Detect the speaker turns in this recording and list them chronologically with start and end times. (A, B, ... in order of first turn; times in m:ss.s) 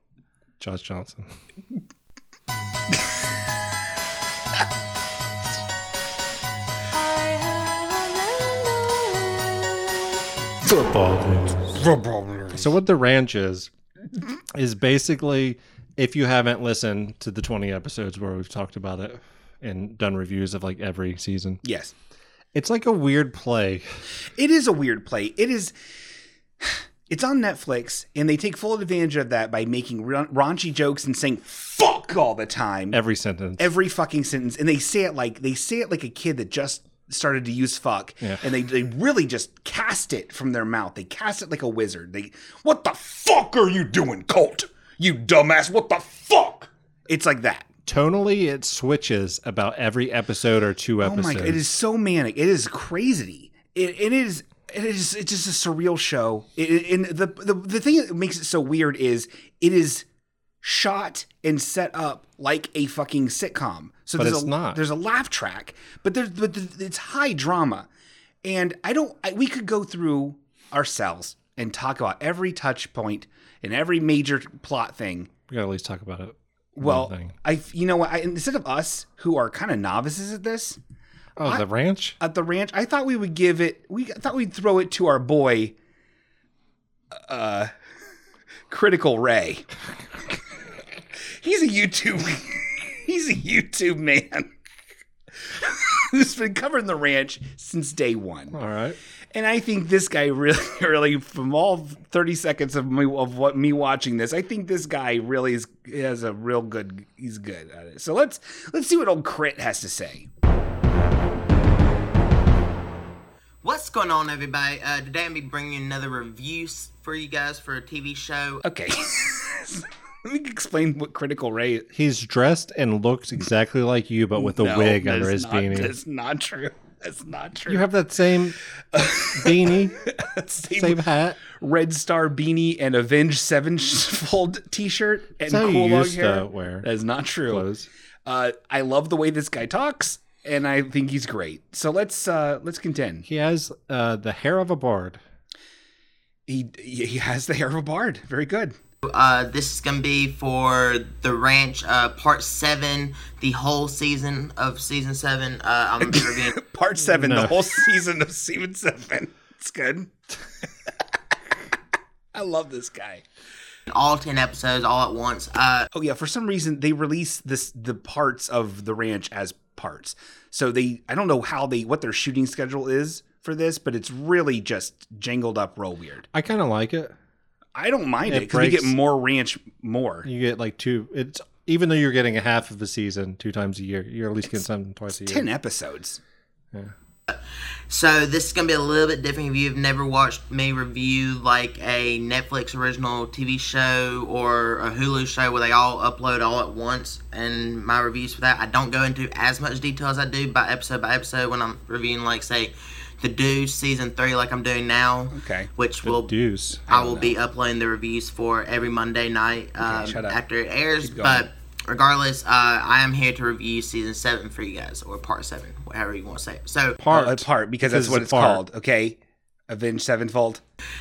0:00.6-0:01.3 A
0:10.6-0:11.7 A
0:11.7-0:12.7 B
0:12.5-0:13.7 A
0:14.5-0:21.6 A
0:21.6-0:21.9 B
0:22.5-0:23.9 A
0:24.3-0:25.7 B
0:26.6-0:33.0 B
0:32.9-0:33.7 A
0:33.6-0:47.7 B
0:47.9-0:51.7 A
0:51.0-1:00.1 B
1:00.6-1:07.9 B
1:04.2-1:04.8 A
1:08.4-1:15.3 B
1:15.5-1:17.4 A
1:16.8-1:20.8 B
1:21.4-1:22.2 A
1:22.2-1:25.8 B
1:27.1-1:27.7 B
1:28.7-1:29.7 B
1:31.4-1:34.5 B
1:35.5-1:38.6 B
1:38.5-1:39.0 A
1:39.3-1:50.3 B
1:53.6-1:58.6 C
1:58.6-2:01.9 B
2:01.9-2:06.0 A
2:04.4-2:07.9 B
2:07.7-2:08.6 A
2:08.9-2:17.7 B
2:09.2-2:10.0 A
2:10.7-2:11.4 A
2:15.5-2:16.9 A
2:17.5-2:17.9 A
2:18.2-2:23.2 B
2:23.2-2:25.2 A
2:26.5-2:28.8 B
2:29.0-2:36.6 C
2:36.0-2:40.1 B
2:37.0-2:37.6 A
2:42.3-2:43.2 B
2:43.9-2:45.9 C
2:45.9-2:56.3 B
2:56.3-2:57.2 A
2:57.8-3:00.3 B
2:58.3-2:59.0 A
3:00.2-3:05.5 A
3:05.2-3:06.2 B
3:07.3-3:37.0 C
3:25.3-3:25.7 B
3:26.0-3:26.9 A
3:26.9-3:27.3 B
3:29.8-3:30.4 B
3:31.0-3:31.5 B
3:37.0-3:38.6 A
3:37.1-3:40.6 B